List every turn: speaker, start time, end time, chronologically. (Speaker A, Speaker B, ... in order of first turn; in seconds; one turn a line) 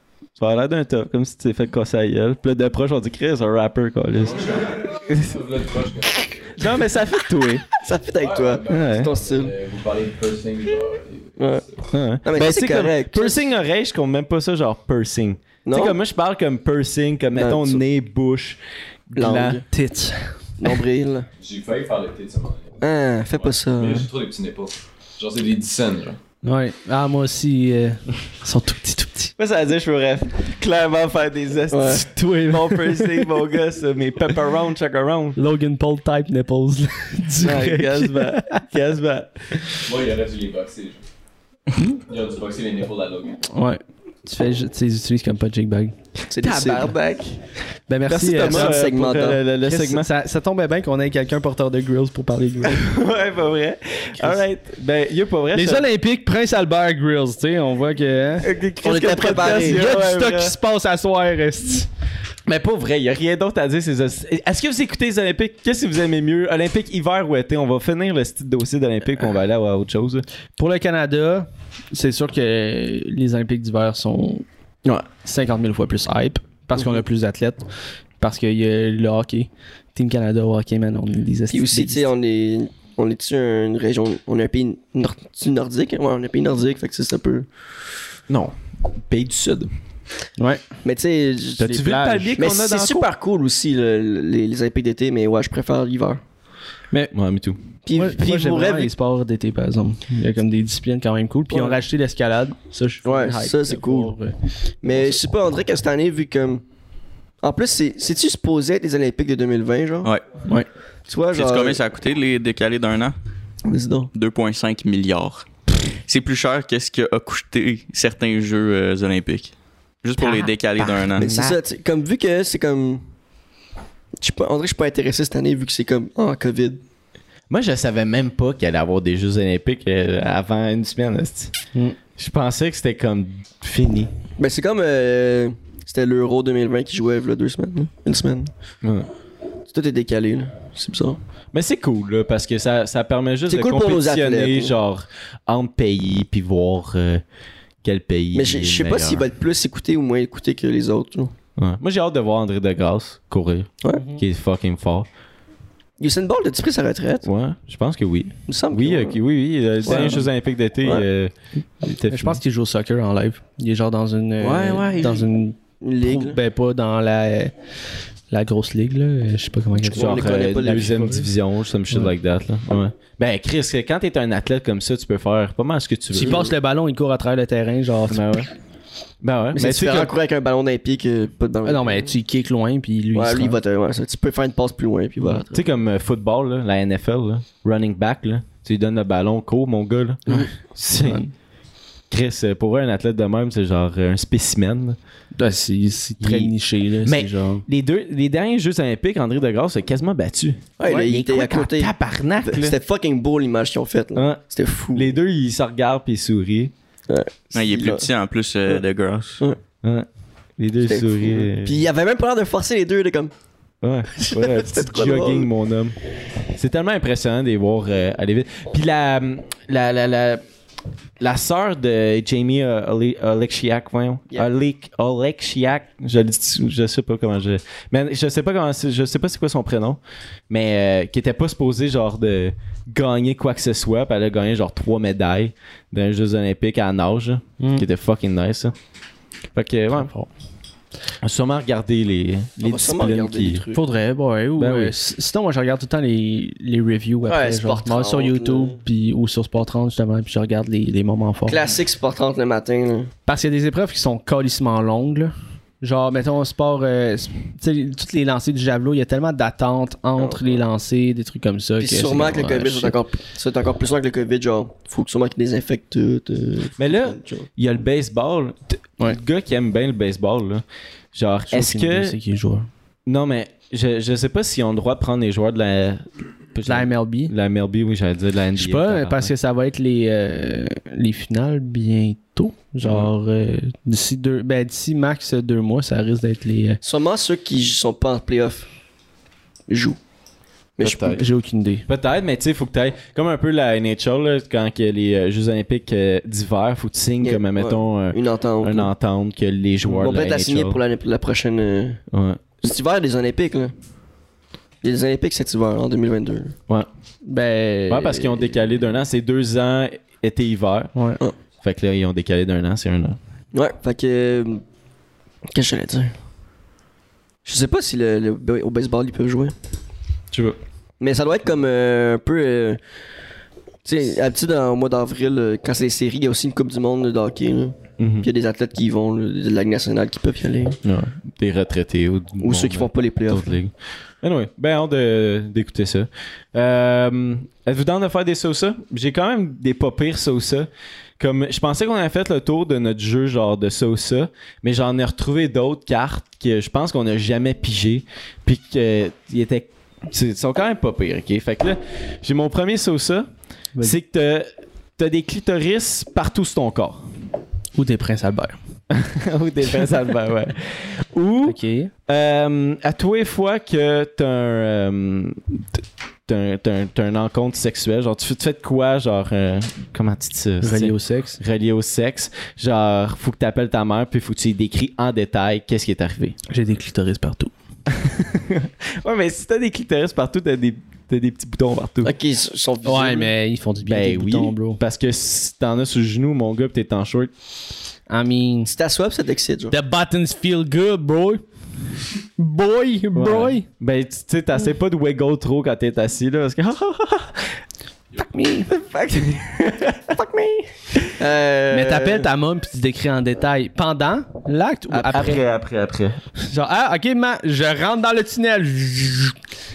Speaker A: 0.4-4.6
Speaker B: 4.2-6.7
Speaker A: 6.6-7.7
Speaker C: 7.8-9.5
Speaker B: 8.2-11.9
Speaker A: 8.7-9.1
Speaker C: 11.4-11.6
Speaker A: 11.9-19.6
Speaker C: 12.2-13.4
Speaker C: 15.6-16.0
Speaker C: 17.3-17.8
Speaker C: 19.1-19.6
Speaker D: 19.7-20.7
Speaker C: 20.6-21.3
Speaker B: 21.4-22.8
Speaker C: 22.8-24.1
Speaker B: 23.4-26.2
Speaker D: 26.4-29.3
Speaker A: 29.4-35.4
Speaker C: 31.7-32.0
Speaker D: 31.9-33.4
Speaker D: 35.4-38.6
Speaker A: 37.4-39.7
Speaker B: 39.8-41.0
Speaker B: 42.0-43.4
Speaker D: 43.5-45.9
Speaker C: 46.3-46.9
Speaker A: 46.4-47.4
Speaker D: 47.9-48.8
Speaker A: 48.0-50.1
Speaker C: 48.3-49.4
Speaker D: 49.6-52.9
Speaker A: 52.6-55.9
Speaker D: 54.2-54.4
Speaker D: 55.5-58.5
Speaker A: 58.4-60.5
Speaker C: 58.8-60.0
Speaker D: 59.5-61.9
Speaker A: 62.5-70.2
Speaker D: 70.6-74.4
Speaker D: 75.2-77.6
Speaker D: 78.2-82.1
Speaker C: 81.5-87.5
Speaker A: 88.3-88.5
Speaker A: 89.1-89.7
Speaker D: 90.4-90.6
Speaker C: 90.8-96.2
Speaker A: 91.6-93.1
Speaker D: 91.6-92.4
Speaker A: 97.1-97.6
Speaker C: 97.8-98.9
Speaker D: 97.9-104.3
Speaker C: 101.5-101.8
Speaker C: 103.0-104.1
Speaker C: 104.8-106.6
Speaker C: 107.4-110.1
Speaker C: 111.1-111.8
Speaker E: 111.3-113.1
Speaker C: 113.6-114.1
Speaker E: 114.1-121.3
Speaker A: 120.2-121.6
Speaker C: 121.2-123.0
Speaker C: 124.2-126.8
Speaker A: 127.5-131.5
Speaker A: 132.2-134.1
Speaker C: 134.4-138.5
Speaker A: 138.8-139.1
Speaker C: 139.7-141.2
Speaker A: 141.5-147.2
Speaker C: 143.5-144.7
Speaker A: 147.8-149.2
Speaker C: 148.3-151.3
Speaker A: 151.6-155.1
Speaker D: 153.9-154.2
Speaker C: 156.0-157.3
Speaker A: 157.2-162.4
Speaker C: 158.5-159.2
Speaker C: 159.8-160.2
Speaker D: 159.9-160.2
Speaker D: 162.1-167.5
Speaker C: 164.4-165.3
Speaker C: 165.8-166.4
Speaker D: 168.3-171.2
Speaker C: 169.9-171.2
Speaker A: 169.9-176.5
Speaker D: 176.1-178.4
Speaker C: 176.2-176.5
Speaker A: 178.1-178.5
Speaker A: 179.2-180.1
Speaker C: 179.5-182.1
Speaker D: 181.6-183.6
Speaker C: 183.1-185.6
Speaker A: 185.5-191.2
Speaker D: 190.3-191.3
Speaker A: 192.1-195.0
Speaker D: 195.3-197.6
Speaker A: 196.2-202.8
Speaker C: 200.8-205.1
Speaker A: 204.1-204.4
Speaker A: 204.9-206.7
Speaker C: 207.1-208.1
Speaker E: 207.5-209.4
Speaker A: 210.6-211.8
Speaker C: 210.8-213.3
Speaker A: 213.8-215.9
Speaker C: 214.2-215.5
Speaker A: 216.5-220.4
Speaker A: 221.2-238.7
Speaker D: 237.6-237.8
Speaker A: 239.5-240.1
Speaker D: 240.0-240.3
Speaker A: 241.2-243.6
Speaker C: 242.6-243.8
Speaker D: 243.7-251.7
Speaker A: 244.6-244.9
Speaker C: 247.3-248.8
Speaker C: 251.5-253.1
Speaker D: 253.3-263.0
Speaker C: 260.2-260.4
Speaker C: 261.8-267.5
Speaker A: 266.8-272.1
Speaker D: 271.5-272.7
Speaker A: 273.1-279.3
Speaker D: 276.6-277.3
Speaker D: 278.6-286.8
Speaker A: 282.8-283.1
Speaker C: 286.8-288.7
Speaker C: 289.7-290.0
Speaker C: 290.8-291.2
Speaker A: 290.8-291.2
Speaker D: 291.1-291.9
Speaker A: 291.9-300.8
Speaker C: 297.2-298.9
Speaker C: 299.9-302.0
Speaker A: 302.1-302.4
Speaker C: 302.6-303.7
Speaker C: 304.8-306.5
Speaker D: 307.2-308.5
Speaker A: 307.9-310.9
Speaker D: 310.9-311.2
Speaker A: 311.6-313.2
Speaker C: 313.5-314.6
Speaker C: 315.5-316.1
Speaker C: 317.4-319.5
Speaker A: 320.3-320.6
Speaker C: 321.0-322.8
Speaker C: 323.8-330.8
Speaker A: 328.0-328.3
Speaker A: 330.8-353.3
Speaker C: 332.4-333.5
Speaker A: 353.8-357.0
Speaker D: 357.8-358.6
Speaker A: 358.9-376.4
Speaker D: 361.4-361.9
Speaker D: 370.6-371.4
Speaker D: 376.5-377.5
Speaker A: 377.9-382.1
Speaker C: 382.0-383.3
Speaker D: 382.8-384.8
Speaker A: 383.8-387.3
Speaker D: 388.1-388.7
Speaker C: 388.7-389.7
Speaker D: 389.7-391.4
Speaker D: 392.4-393.6
Speaker A: 393.1-397.5
Speaker D: 398.2-398.7
Speaker C: 398.8-399.4
Speaker A: 399.4-399.9
Speaker C: 400.1-402.3
Speaker D: 401.7-405.4
Speaker A: 404.9-406.2
Speaker D: 406.4-409.3